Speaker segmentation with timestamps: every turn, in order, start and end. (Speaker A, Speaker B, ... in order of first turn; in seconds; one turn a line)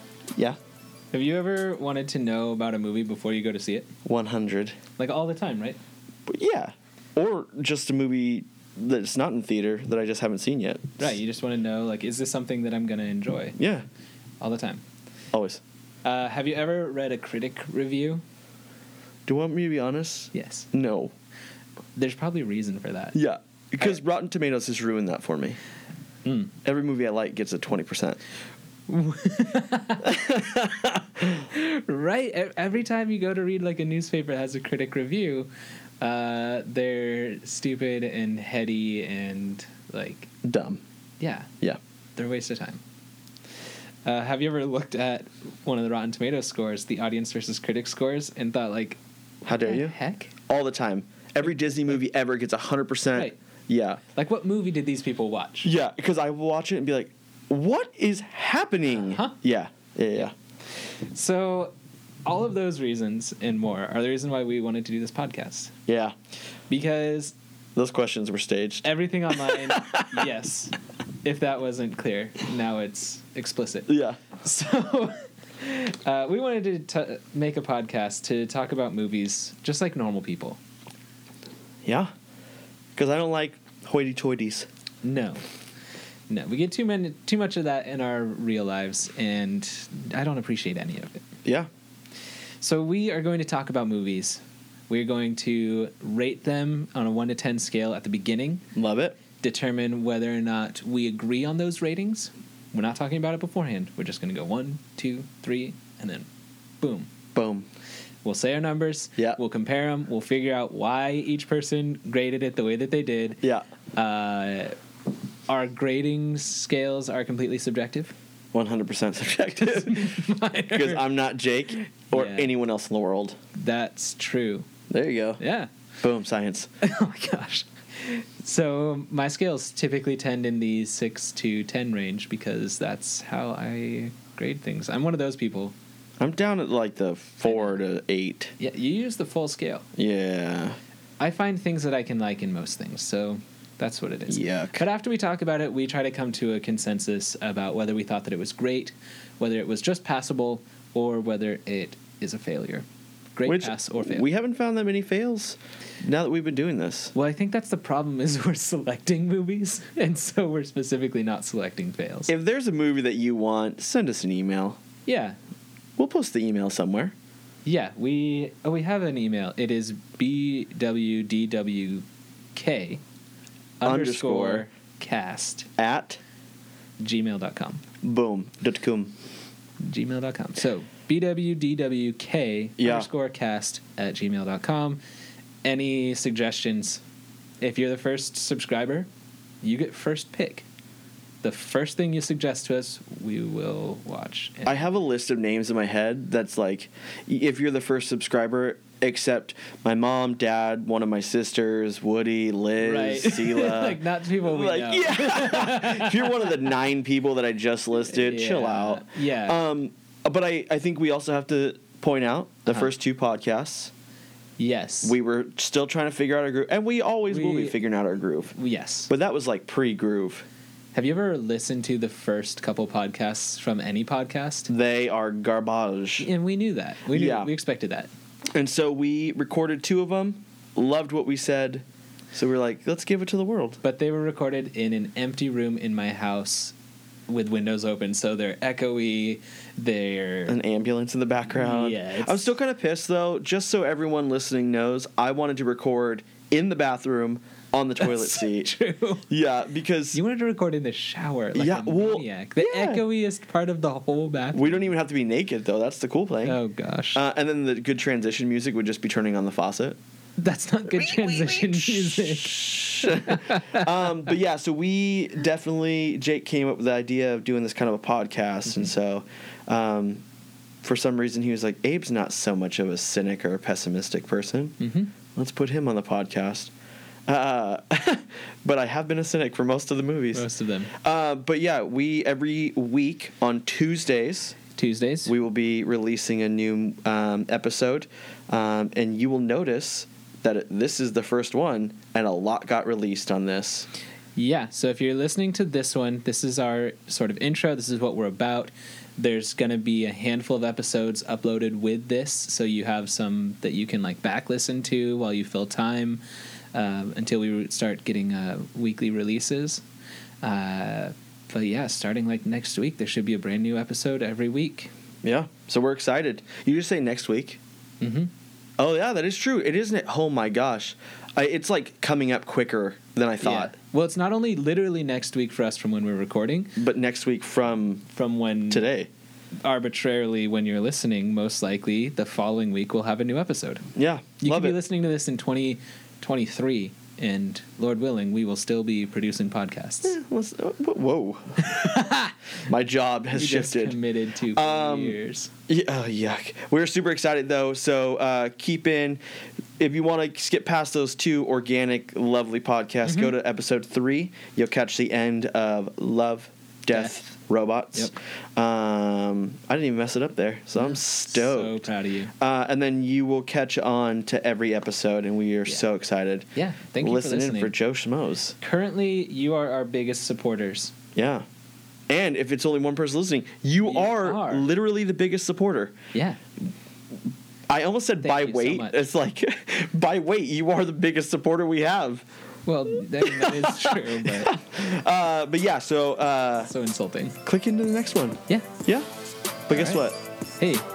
Speaker A: 1.1-3.9
Speaker B: 4.1-4.8
Speaker A: 5.0-5.8
Speaker B: 6.3-11.1
Speaker A: 11.0-13.6
Speaker B: 13.6-13.9
Speaker A: 14.4-14.8
Speaker B: 15.3-15.6
Speaker A: 16.1-18.2
Speaker B: 19.3-21.1
Speaker A: 20.3-20.7
Speaker A: 22.0-23.2
Speaker B: 23.1-25.6
Speaker A: 26.2-26.5
Speaker B: 26.6-28.2
Speaker A: 28.9-35.5
Speaker B: 30.1-30.7
Speaker A: 36.0-40.3
Speaker B: 40.4-40.8
Speaker A: 41.2-41.5
Speaker A: 42.2-42.8
Speaker A: 44.1-50.3
Speaker B: 49.5-50.0
Speaker B: 50.5-54.0
Speaker A: 54.1-55.7
Speaker B: 55.6-60.3
Speaker A: 58.9-59.3
Speaker A: 61.1-61.7
Speaker A: 62.3-65.7
Speaker B: 65.9-66.2
Speaker A: 66.7-67.3
Speaker B: 67.8-70.1
Speaker A: 68.8-80.6
Speaker B: 73.9-74.2
Speaker B: 81.8-82.1
Speaker B: 83.0-84.7
Speaker A: 85.0-85.4
Speaker A: 86.3-91.2
Speaker A: 92.6-98.6
Speaker B: 98.8-99.2
Speaker A: 99.4-106.3
Speaker A: 106.8-107.1
Speaker B: 107.3-107.7
Speaker A: 108.2-113.4
Speaker A: 114.0-114.7
Speaker A: 115.5-118.1
Speaker B: 118.5-120.2
Speaker A: 119.6-121.0
Speaker B: 120.7-123.4
Speaker A: 122.1-122.5
Speaker A: 123.5-124.7
Speaker B: 124.9-125.4
Speaker A: 125.4-125.7
Speaker B: 126.0-126.7
Speaker A: 126.8-135.7
Speaker B: 136.2-138.5
Speaker A: 137.4-137.8
Speaker A: 138.6-139.8
Speaker B: 140.0-140.8
Speaker A: 141.2-152.8
Speaker B: 144.3-144.8
Speaker A: 153.4-154.3
Speaker B: 153.5-157.1
Speaker A: 157.2-162.3
Speaker B: 162.3-164.8
Speaker A: 165.1-165.4
Speaker B: 166.0-167.1
Speaker A: 167.7-173.0
Speaker A: 173.8-175.7
Speaker B: 173.8-174.7
Speaker B: 175.8-176.2
Speaker A: 177.0-177.8
Speaker B: 178.0-179.1
Speaker A: 179.8-185.0
Speaker B: 182.8-183.1
Speaker A: 185.6-187.0
Speaker A: 187.6-189.1
Speaker A: 189.6-190.7
Speaker A: 191.4-194.8
Speaker B: 194.7-213.9
Speaker A: 202.8-206.6
Speaker A: 208.1-209.6
Speaker A: 214.6-215.2
Speaker B: 215.0-218.6
Speaker A: 217.3-217.8
Speaker A: 218.6-219.1
Speaker B: 219.1-220.5
Speaker A: 220.9-224.7
Speaker B: 224.7-226.3
Speaker A: 226.2-228.1
Speaker B: 227.1-227.5
Speaker B: 228.5-233.8
Speaker A: 233.8-236.8
Speaker A: 237.3-240.6
Speaker B: 240.5-248.7
Speaker A: 241.5-242.6
Speaker A: 248.0-249.3
Speaker B: 249.3-250.2
Speaker A: 250.1-254.9
Speaker B: 251.6-253.0
Speaker B: 254.5-256.6
Speaker A: 256.4-257.2
Speaker B: 257.1-260.0
Speaker A: 260.4-263.9
Speaker B: 261.1-270.2
Speaker B: 270.8-274.8
Speaker A: 274.8-275.1
Speaker B: 275.4-276.7
Speaker B: 277.3-284.6
Speaker A: 280.3-280.9
Speaker A: 284.7-285.3
Speaker B: 285.3-293.9
Speaker A: 294.4-306.2
Speaker A: 306.7-309.8
Speaker A: 310.4-314.9
Speaker B: 315.2-317.6
Speaker A: 318.0-318.3
Speaker B: 318.8-323.7
Speaker A: 323.4-326.7
Speaker B: 326.8-328.1
Speaker A: 328.1-328.9
Speaker B: 328.7-329.1
Speaker A: 329.6-333.8
Speaker B: 334.0-334.8
Speaker A: 334.4-340.2
Speaker B: 340.1-341.7
Speaker A: 341.6-342.3
Speaker B: 342.7-344.0
Speaker A: 343.3-345.5
Speaker B: 344.5-345.2
Speaker B: 345.7-349.2
Speaker B: 349.8-361.9
Speaker A: 353.1-353.3
Speaker A: 356.9-357.3
Speaker A: 360.8-362.3
Speaker B: 362.4-366.5
Speaker A: 366.6-367.7
Speaker B: 367.0-368.6
Speaker A: 368.6-370.9
Speaker B: 371.1-371.4
Speaker B: 372.1-376.0
Speaker A: 373.8-374.7
Speaker A: 376.1-376.4
Speaker B: 377.7-382.2
Speaker A: 378.2-379.1
Speaker A: 382.7-384.6
Speaker B: 383.2-386.7
Speaker A: 386.6-387.4
Speaker B: 387.5-389.1
Speaker B: 389.7-390.2
Speaker A: 389.7-390.0
Speaker A: 390.6-390.9